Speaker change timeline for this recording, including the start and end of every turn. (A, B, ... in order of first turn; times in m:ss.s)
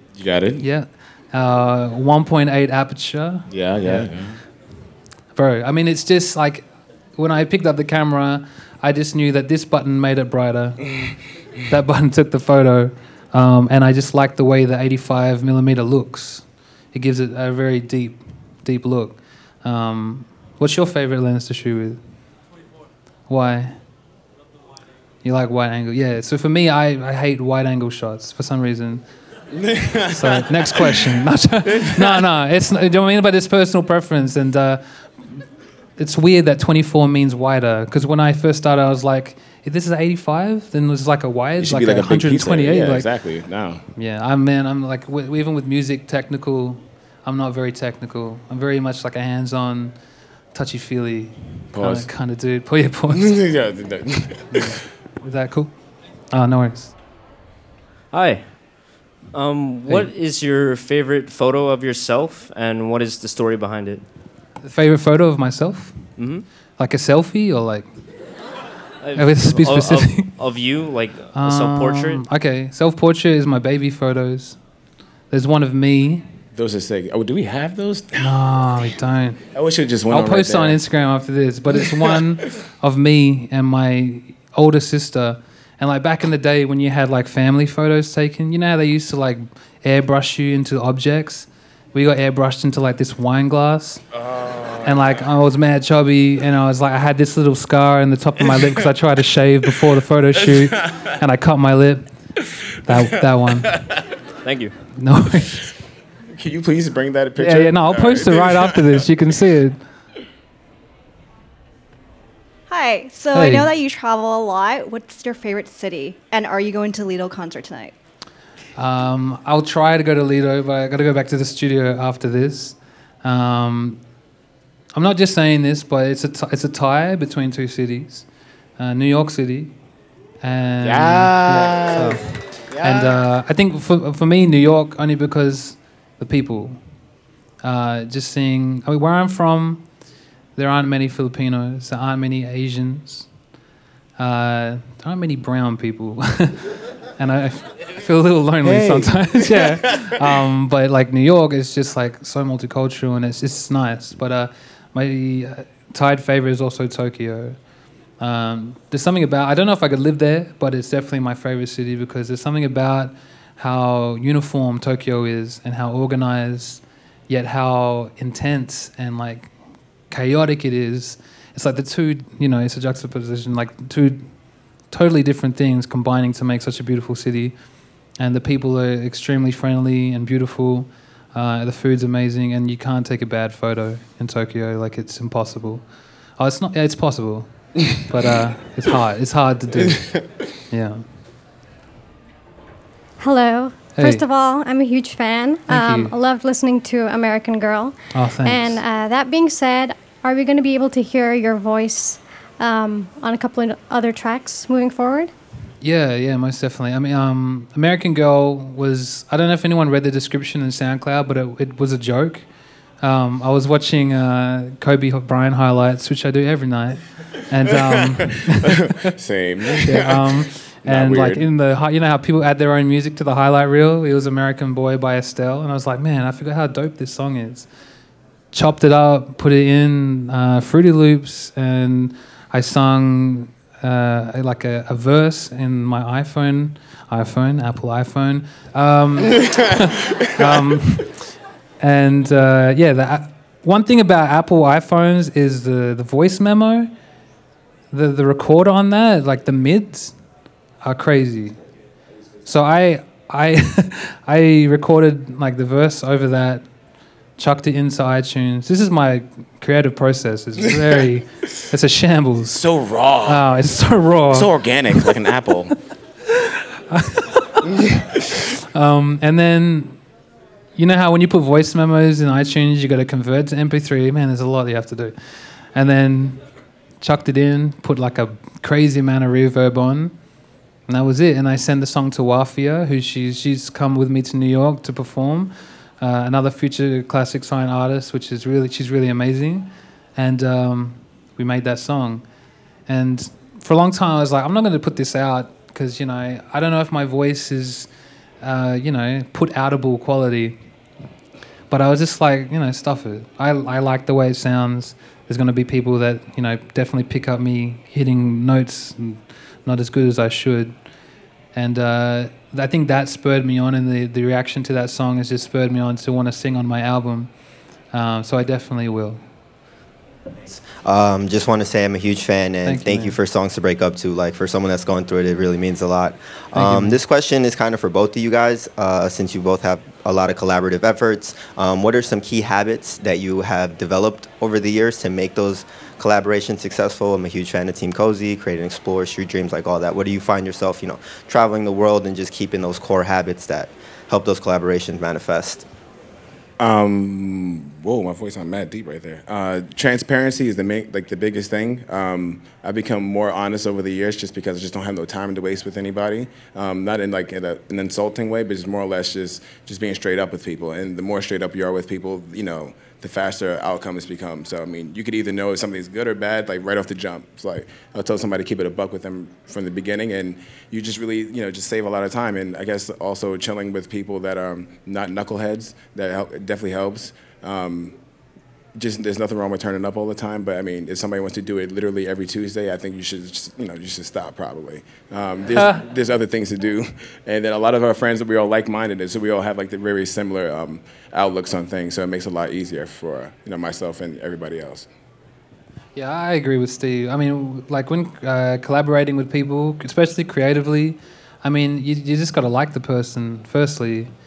0:00.1-0:00.6 A
0:00.6-0:04.1 B
0:03.5-0:04.4 A
0:05.3-0:22.0 B
0:23.3-0:23.8 B
0:25.2-0:29.0 B
0:29.5-0:32.2 A
0:30.1-0:35.4 B
0:36.0-0:43.2 B
0:41.6-0:43.8 A
0:44.0-0:50.0 B
0:50.5-0:53.4 B
0:51.7-0:52.1 A
0:53.1-0:54.7 A
0:54.5-0:55.8 B
0:56.3-0:57.0 B
0:58.1-1:04.0 C
1:04.6-1:06.2 B
1:06.2-1:06.5 C
1:06.8-1:07.9 B
1:09.0-1:12.2 C
1:09.1-1:10.3 B
1:11.3-1:14.6 B
1:15.3-1:16.3 B
1:16.5-1:18.4 A
1:18.2-1:19.4 B
1:19.5-1:20.8 A
1:20.1-1:34.0 B
1:34.1-1:35.2 A
1:34.8-1:42.1 B
1:40.5-1:40.9 A
1:42.8-1:43.8 B
1:44.4-1:44.8 C
1:45.0-1:45.7 B
1:46.3-1:49.0 A
1:47.4-1:49.8 B
1:52.7-1:57.9 D
1:53.3-1:53.7 B
1:58.8-2:04.0 B
2:04.9-2:08.3 B
2:08.8-2:09.7 B
2:10.4-2:16.8 B
2:10.8-2:13.2 A
2:17.6-2:19.9 B
2:20.6-2:23.3 B
2:24.2-2:37.6 B
2:28.6-2:30.1 A
2:38.2-2:49.5 B
2:50.1-2:54.3 B
2:54.9-2:57.6 B
2:58.2-3:05.8 B
3:06.4-3:11.0 B
3:10.0-3:10.3 A
3:13.2-3:25.3 E
3:14.0-3:14.2 B
3:15.7-3:16.1 B
3:18.1-3:18.8 B
3:25.8-3:32.5 B
3:33.0-3:39.1 B
3:37.7-3:41.5 A
3:39.8-3:47.7 B
3:48.5-4:06.9 B
4:07.9-4:10.2 B
4:10.8-4:11.6 B
4:12.4-4:16.7 B
4:17.4-4:22.6 B
4:22.5-4:23.5 A
4:23.2-4:25.1 B
4:24.3-4:25.8 A
4:26.9-4:27.6 B
4:28.7-4:30.0 B
4:30.8-4:36.4 B
4:37.0-4:40.2 B
4:40.9-4:52.2 B
4:52.9-4:57.9 B
4:58.4-5:00.6 B
5:01.7-5:10.8 B
5:11.5-5:17.3 B
5:17.9-5:19.2 B
5:20.5-5:45.6 F
5:22.6-5:23.2 B
5:26.6-5:27.0 B
5:46.6-6:18.0 A
6:18.8-6:34.9 A
6:25.6-6:25.8 B
6:36.0-6:44.1 B